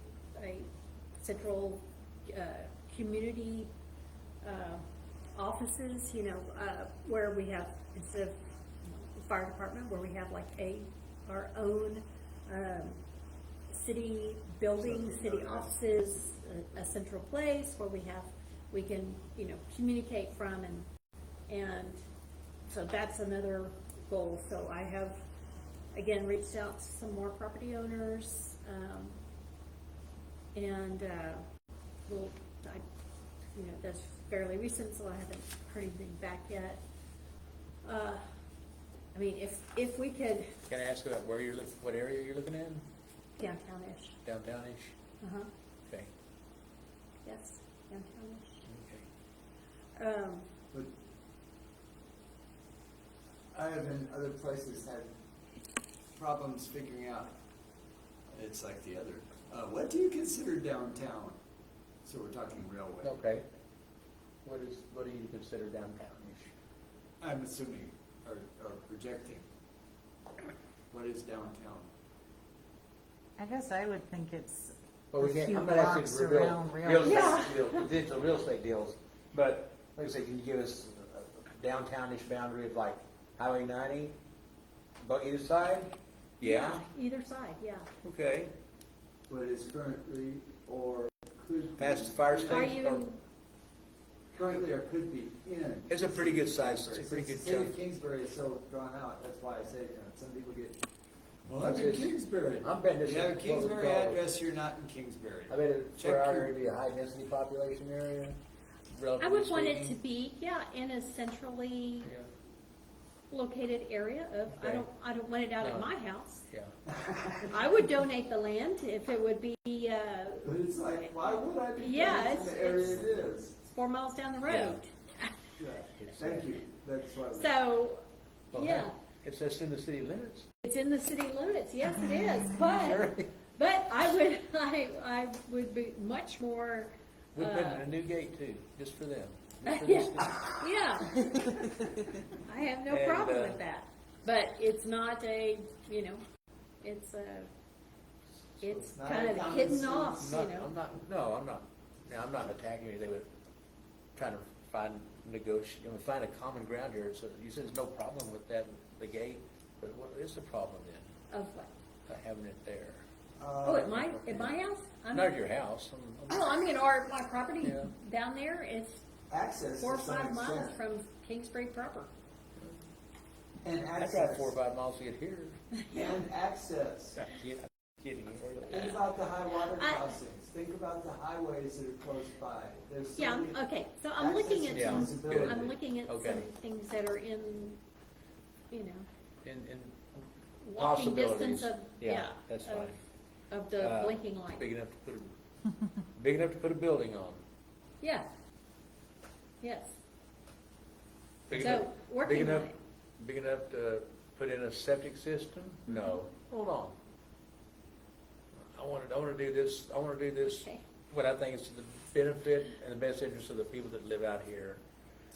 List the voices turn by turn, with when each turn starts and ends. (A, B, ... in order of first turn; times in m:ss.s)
0:00.4-0:03.7 A
0:04.4-0:13.0 A
0:13.7-0:20.9 A
0:14.8-0:15.7 B
0:21.5-0:22.0 A
0:22.7-0:25.2 A
0:25.9-0:29.2 A
0:30.5-0:31.4 A
0:32.1-0:32.8 A
0:33.6-0:36.8 A
0:37.8-0:38.2 A
0:39.1-0:40.6 A
0:40.7-0:42.9 C
0:43.4-0:44.2 A
0:44.2-0:45.0 C
0:45.2-0:45.5 A
0:45.9-0:46.1 C
0:47.2-0:48.6 A
0:48.6-0:49.1 C
0:50.0-0:50.5 A
0:53.5-0:55.1 B
0:56.2-0:57.4 B
0:58.3-1:01.4 B
1:02.0-1:03.2 B
1:03.0-1:03.5 C
1:04.4-1:06.5 C
1:07.2-1:09.4 B
1:10.9-1:11.9 B
1:13.4-1:17.2 D
1:15.1-1:24.2 C
1:17.0-1:17.9 A
1:25.0-1:26.8 C
1:26.4-1:27.9 A
1:28.0-1:28.5 C
1:29.3-1:32.8 B
1:31.8-1:33.1 C
1:32.5-1:33.2 A
1:34.3-1:40.8 B
1:35.9-1:37.8 C
1:41.5-1:46.5 B
1:41.6-1:44.2 C
1:45.5-1:48.4 C
1:48.9-1:50.0 C
1:49.2-1:52.1 A
1:52.0-1:52.3 C
1:53.3-1:56.4 A
1:54.5-1:54.9 C
1:55.6-1:55.9 C
1:56.9-1:57.5 B
1:57.5-2:00.5 A
2:00.4-2:03.6 B
2:01.8-2:05.3 A
2:04.5-2:04.8 C
2:05.6-2:07.5 B
2:06.0-2:06.6 C
2:07.3-2:08.9 A
2:08.5-2:10.5 C
2:10.6-2:17.9 A
2:12.6-2:13.3 C
2:17.4-2:20.6 C
2:19.7-2:21.6 A
2:22.4-2:26.2 A
2:22.9-2:23.6 C
2:26.8-2:27.5 A
2:28.6-2:30.7 A
2:28.6-2:30.3 B
2:30.2-2:33.3 C
2:34.2-2:41.1 C
2:41.3-2:41.7 A
2:42.1-2:43.0 C
2:43.4-2:44.1 B
2:43.6-2:45.4 A
2:44.0-2:44.5 C
2:45.1-2:46.4 C
2:46.3-2:49.0 A
2:47.6-2:47.9 C
2:49.3-2:50.8 B
2:49.8-2:52.1 A
2:53.6-2:54.5 B
2:54.0-2:55.6 C
2:55.8-2:56.2 A
2:55.9-2:57.2 B
2:57.2-2:59.0 C
2:58.7-3:03.6 B
2:59.7-3:00.1 A
3:03.2-3:07.8 A
3:04.2-3:05.7 B
3:04.7-3:06.5 C
3:08.7-3:09.1 A
3:09.4-3:10.2 C
3:10.6-3:12.9 A
3:10.8-3:13.0 C
3:13.5-3:14.7 A
3:13.8-3:15.3 C
3:16.2-3:17.4 C
3:18.0-3:18.3 A
3:19.6-3:20.0 A
3:21.5-3:27.0 C
3:21.5-3:22.8 A
3:28.8-3:34.8 C
3:30.5-3:30.8 A